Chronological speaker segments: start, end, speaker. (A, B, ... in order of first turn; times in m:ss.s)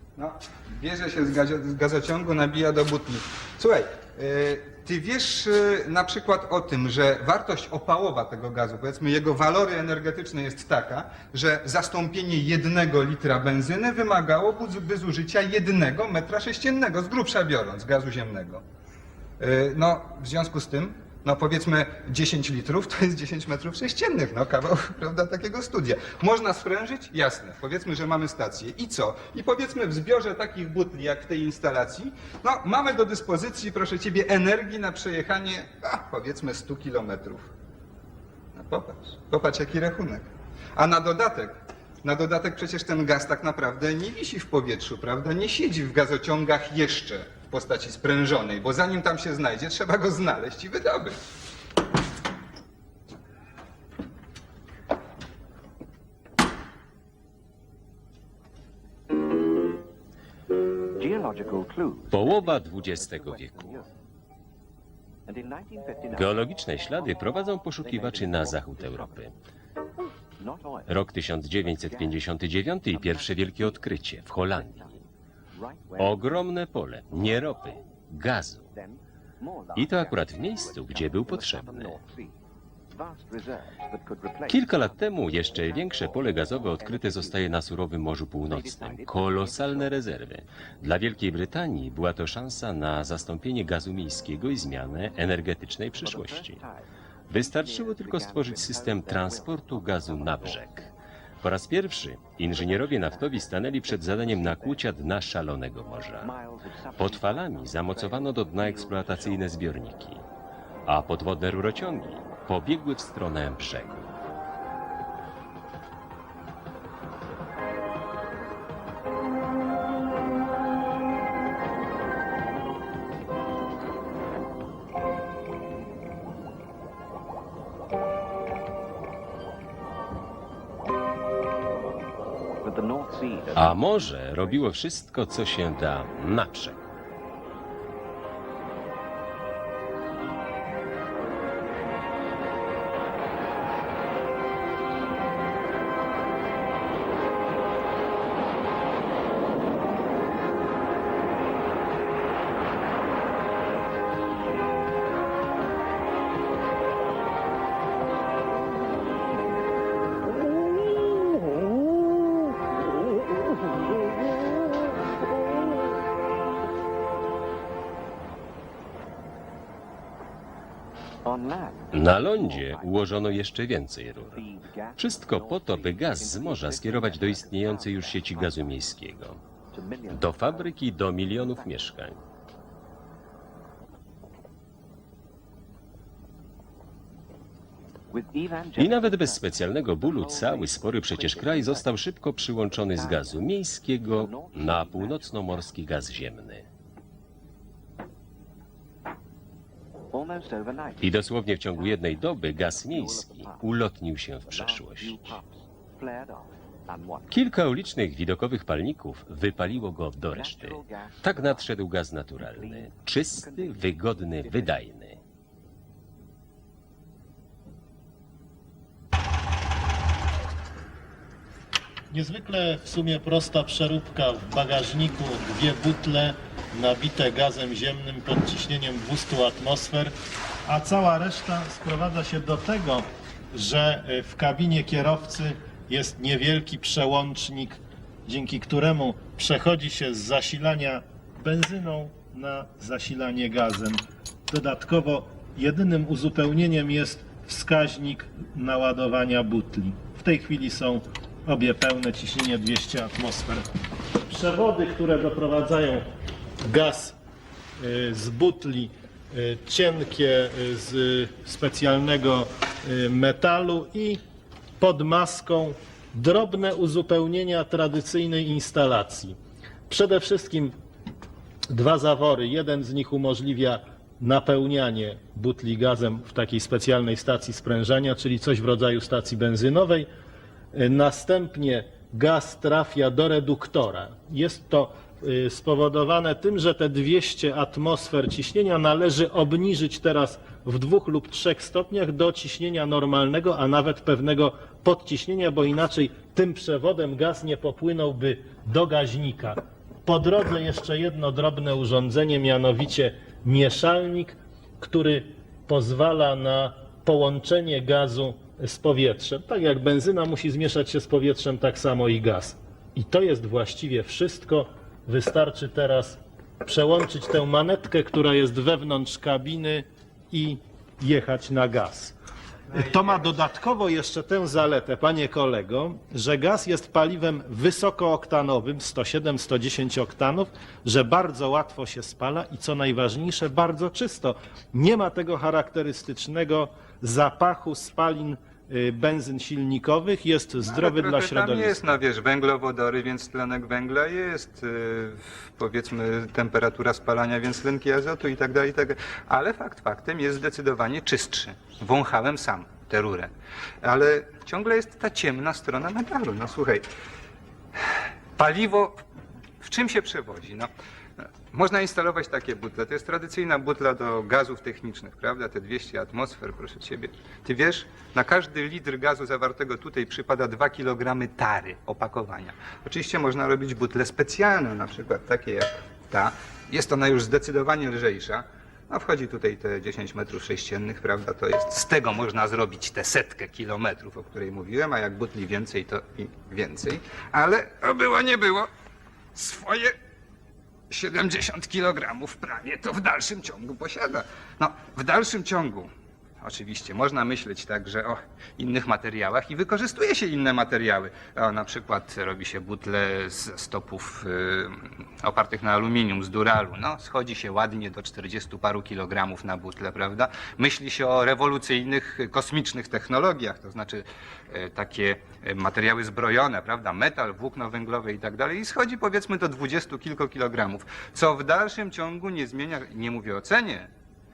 0:00.2-0:18.6 A
0:19.4-0:37.5 A
0:38.6-0:51.2 A
1:01.0-1:03.8 B
1:02.1-1:03.8 C
1:05.3-1:06.2 B
1:06.1-1:09.3 C
1:07.8-1:09.1 B
1:10.4-1:10.8 B
1:10.9-1:15.0 C
1:11.9-1:12.2 B
1:13.0-1:13.3 B
1:15.6-1:16.3 B
1:16.0-1:18.7 C
1:18.7-1:22.3 B
1:19.7-1:22.0 C
1:22.9-1:24.8 B
1:24.5-1:36.6 C
1:25.6-1:27.3 B
1:28.5-1:29.9 B
1:36.0-1:36.8 B
1:37.3-1:46.3 C
1:37.5-1:40.5 B
1:42.7-1:43.2 B
1:44.0-1:44.7 B
1:46.2-1:49.4 B
1:47.0-1:50.2 C
1:50.8-1:54.1 C
2:12.6-2:13.7 B
2:13.5-2:16.8 C
2:51.2-2:52.0 B
2:51.9-2:54.4 C
2:52.6-2:53.1 B
2:54.3-2:58.8 B
2:55.0-2:59.4 C
2:59.7-3:00.6 B
3:00.1-3:02.2 C
3:08.1-3:09.4 B
3:08.8-3:16.6 C
3:10.1-3:11.8 B
3:13.0-3:13.3 B
3:14.2-3:15.3 B
3:20.1-3:21.1 B
3:21.0-3:25.4 C
3:22.6-3:23.6 B
3:24.5-3:27.3 B
3:27.3-3:35.2 C
3:30.4-3:31.6 B
3:32.6-3:33.7 B
3:42.1-3:50.1 D
3:50.6-4:13.7 D
4:14.2-4:16.1 D
4:16.6-4:17.2 D
4:17.8-4:24.2 D
4:24.8-4:29.4 D
4:29.9-4:30.7 D
4:31.7-4:40.1 D
4:40.7-5:22.1 D
5:22.7-5:41.9 D
5:40.6-5:53.3 A
5:53.8-5:56.8 A
5:58.4-5:59.0 A
5:59.6-6:00.7 A
6:01.5-6:28.7 A
6:29.3-6:29.9 A
6:30.9-6:35.9 A
6:36.4-7:03.9 A